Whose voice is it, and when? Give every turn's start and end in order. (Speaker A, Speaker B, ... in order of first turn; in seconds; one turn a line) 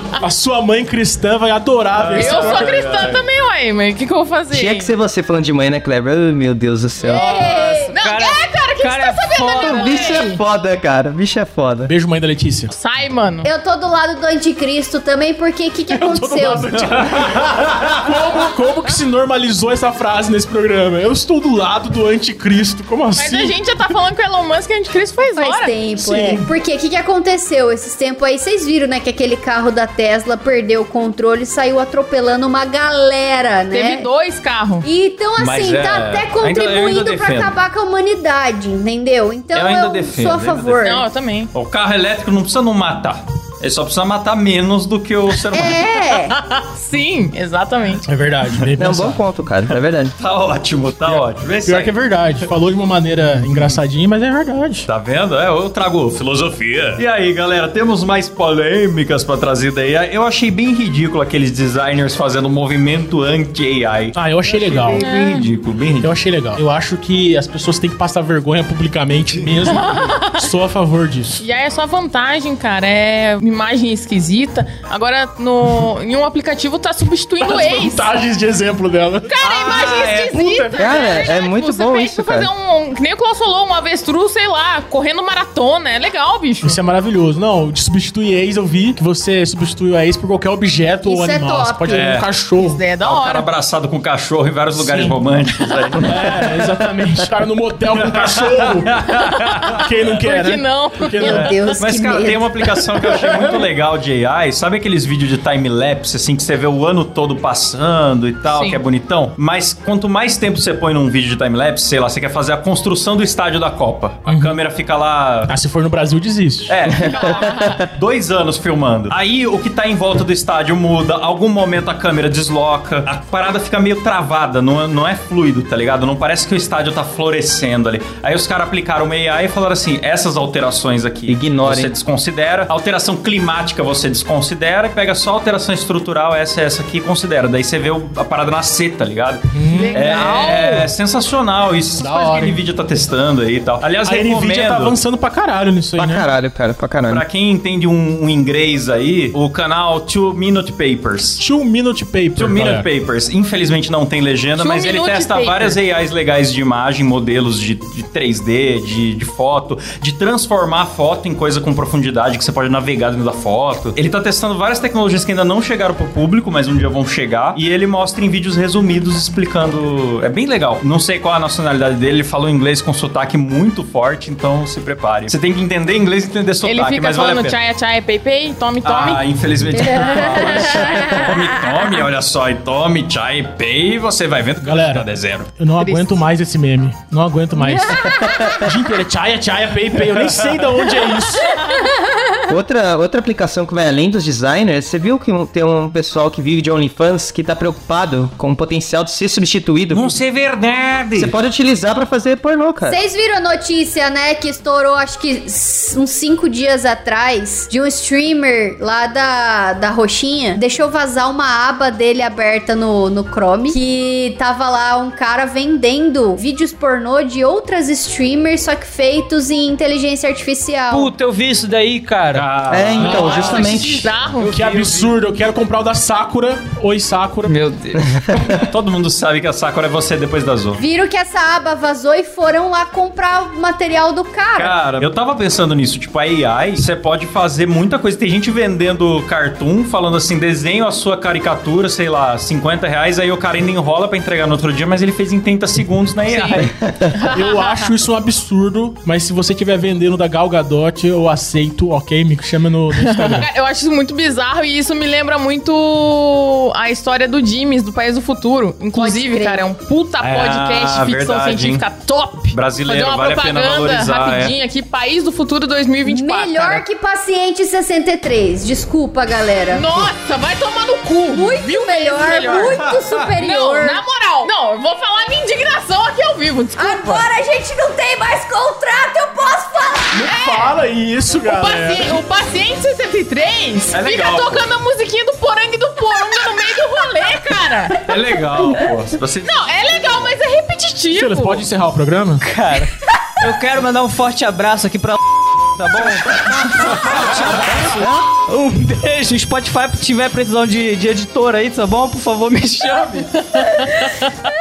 Speaker A: 0.2-3.1
Speaker B: 2.0-3.2
Speaker C: 2.1-4.9
Speaker D: 4.5-7.4
Speaker E: 7.0-7.9
Speaker C: 7.1-10.4
Speaker F: 7.4-10.2
Speaker D: 9.5-11.9
Speaker A: 11.8-12.7
Speaker C: 12.7-13.5
Speaker E: 13.4-16.9
Speaker A: 15.9-23.6
Speaker B: 17.2-17.9
Speaker C: 23.2-25.7
Speaker E: 25.4-34.1
Speaker A: 26.0-26.5
Speaker C: 33.7-34.9
Speaker E: 34.8-41.0
Speaker B: 35.4-37.5
Speaker B: 39.5-40.8
Speaker C: 40.8-41.5
Speaker B: 41.5-45.8
Speaker E: 45.5-46.3
Speaker C: 46.3-48.0
Speaker A: 48.0-49.2
Speaker D: 48.8-50.1
Speaker B: 49.7-51.9
Speaker A: 51.0-54.9
Speaker B: 53.3-53.8
Speaker B: 54.9-66.1
Speaker A: 64.1-65.0
Speaker C: 65.0-65.5
Speaker A: 66.0-71.4
Speaker C: 69.6-70.5
Speaker C: 71.4-78.1
Speaker A: 77.4-79.3
Speaker C: 79.3-86.8
Speaker B: 79.4-81.0
Speaker D: 80.7-82.5
Speaker A: 86.6-92.8
Speaker E: 91.0-92.2
Speaker B: 91.9-92.2
Speaker C: 92.5-93.5
Speaker B: 93.0-96.4
Speaker A: 94.8-95.2
Speaker A: 96.0-99.0
Speaker B: 98.0-99.8
Speaker A: 99.7-101.5
Speaker C: 99.8-101.7
Speaker E: 101.2-102.5
Speaker B: 101.3-115.5
Speaker C: 108.5-108.8
Speaker A: 114.3-114.5
Speaker A: 115.5-116.7
Speaker B: 116.7-144.9
Speaker C: 117.0-117.8
Speaker D: 131.3-131.9
Speaker A: 139.5-140.7
Speaker C: 139.7-140.9
Speaker A: 142.0-142.6
Speaker A: 144.0-146.2
Speaker D: 146.0-147.2
Speaker B: 147.1-151.4
Speaker A: 151.4-152.8
Speaker B: 152.3-177.6
Speaker C: 154.6-155.8
Speaker C: 176.6-179.2
Speaker B: 178.8-185.5
Speaker E: 179.8-181.4
Speaker C: 180.1-181.3
Speaker A: 184.6-185.1
Speaker A: 185.6-188.0
Speaker C: 185.8-186.2
Speaker E: 187.6-188.5
Speaker A: 188.6-191.5
Speaker B: 190.2-190.6
Speaker D: 192.5-200.2
Speaker B: 199.9-201.3
Speaker D: 201.1-203.0
Speaker E: 202.8-221.1
Speaker F: 220.9-222.5
Speaker B: 222.3-225.1
Speaker D: 222.7-224.1
Speaker A: 223.0-223.4
Speaker C: 223.1-224.6
Speaker A: 224.4-227.6
Speaker F: 227.4-228.2
Speaker B: 228.5-230.8
Speaker E: 230.8-234.7
Speaker B: 234.5-246.7
Speaker C: 246.2-247.8
Speaker A: 247.3-253.4
Speaker C: 253.0-266.8
Speaker E: 258.9-259.6
Speaker B: 260.2-261.8
Speaker B: 262.5-264.5
Speaker E: 266.0-269.9
Speaker C: 269.7-272.8
Speaker E: 271.3-274.0
Speaker B: 272.5-273.3
Speaker C: 273.4-277.2
Speaker E: 276.8-280.2
Speaker A: 280.1-282.1
Speaker C: 280.2-280.8
Speaker C: 281.4-288.0
Speaker B: 283.9-284.7
Speaker B: 288.0-290.3
Speaker C: 289.4-291.6
Speaker A: 291.1-292.4
Speaker F: 292.4-295.2
Speaker F: 295.7-304.1
Speaker C: 303.6-304.2